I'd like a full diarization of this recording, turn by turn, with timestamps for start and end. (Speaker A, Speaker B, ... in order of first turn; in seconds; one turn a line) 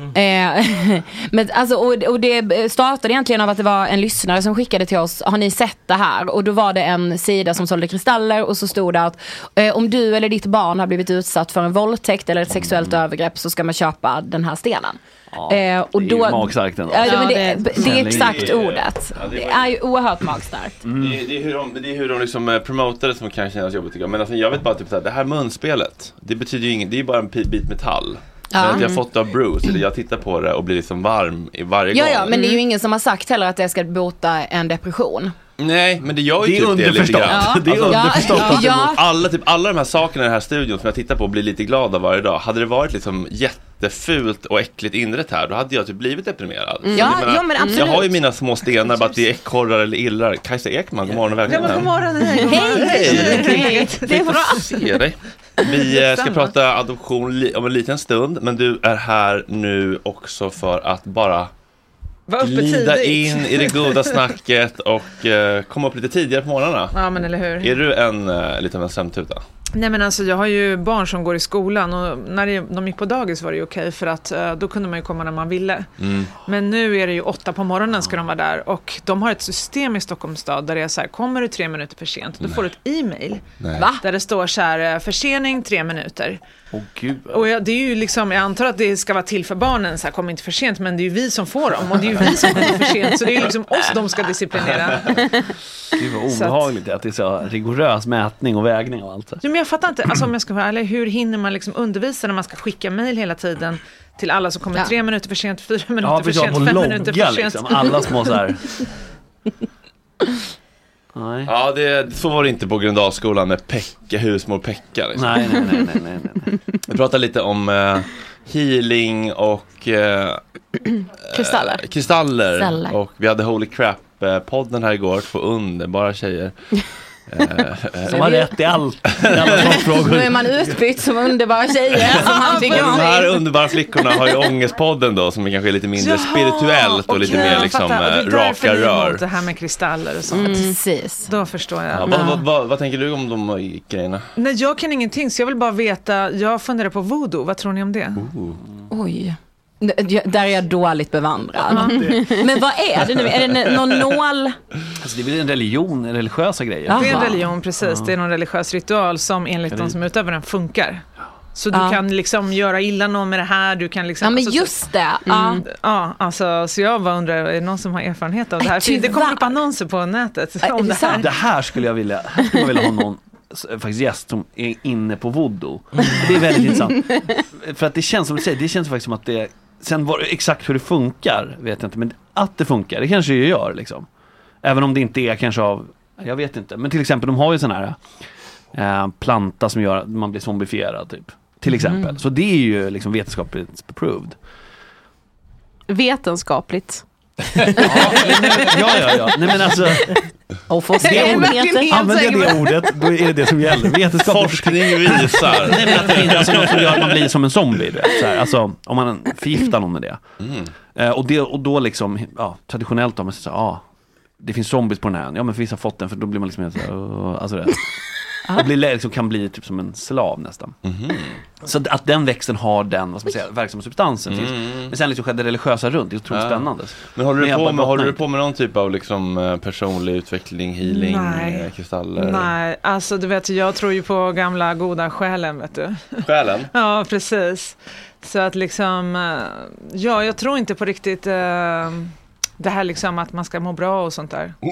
Speaker A: 0.1-20.8
Speaker B: 12.5-13.0
Speaker B: 15.3-18.6
Speaker C: 17.0-17.9
Speaker D: 17.9-19.8
Speaker B: 20.8-21.2
Speaker D: 21.0-32.5
Speaker A: 28.5-29.0
Speaker A: 31.9-35.3
Speaker D: 35.6-52.0
Speaker B: 36.4-38.7
Speaker C: 37.3-38.6
Speaker A: 37.8-39.0
Speaker C: 46.9-48.0
Speaker A: 46.9-48.1
Speaker E: 51.5-54.6
Speaker A: 52.4-54.8
Speaker D: 52.6-61.5
Speaker E: 55.9-56.5
Speaker E: 62.3-64.2
Speaker D: 62.4-69.4
Speaker E: 66.9-67.8
Speaker E: 69.7-75.9
Speaker D: 76.0-76.3
Speaker E: 76.5-83.5
Speaker D: 83.6-83.9
Speaker A: 83.8-84.0
Speaker E: 84.0-86.4
Speaker B: 86.7-87.5
Speaker E: 87.3-95.3
Speaker B: 95.9-99.4
Speaker E: 96.3-96.7
Speaker E: 99.4-108.3
Speaker B: 106.0-108.7
Speaker B: 111.2-111.5
Speaker D: 111.5-115.7
Speaker B: 115.2-116.6
Speaker D: 116.9-120.4
Speaker D: 121.3-126.5
Speaker A: 121.3-121.8
Speaker A: 122.5-123.0
Speaker D: 127.3-128.4
Speaker B: 128.1-130.7
Speaker A: 128.2-128.5
Speaker D: 129.1-129.9
Speaker A: 129.8-133.3
Speaker D: 132.2-139.2
Speaker E: 132.3-133.0
Speaker E: 136.0-140.7
Speaker A: 137.3-137.6
Speaker A: 140.3-141.3
Speaker E: 141.3-142.4
Speaker D: 141.9-144.3
Speaker A: 142.1-142.4
Speaker E: 144.4-148.2
Speaker A: 148.9-154.6
Speaker B: 151.7-152.2
Speaker B: 155.0-158.1
Speaker A: 156.9-157.5
Speaker E: 156.9-161.0
Speaker B: 159.7-160.0
Speaker E: 161.6-164.8
Speaker A: 161.7-162.0
Speaker A: 164.2-165.6
Speaker C: 165.3-165.6
Speaker E: 165.7-171.3
Speaker A: 168.6-169.5
Speaker A: 170.6-171.2
Speaker B: 171.1-184.1
Speaker B: 184.6-188.0
Speaker B: 188.7-194.3
Speaker C: 195.9-197.0
Speaker B: 197.6-210.2
Speaker C: 197.8-198.2
Speaker A: 200.9-201.9
Speaker C: 201.0-202.9
Speaker D: 204.2-207.1
Speaker D: 210.4-210.7
Speaker B: 211.0-213.8
Speaker B: 214.4-217.9
Speaker B: 218.4-220.8
Speaker D: 220.8-221.4
Speaker B: 221.6-228.2
Speaker D: 224.3-224.9
Speaker D: 226.3-232.5
Speaker E: 230.9-244.6
Speaker D: 236.2-236.7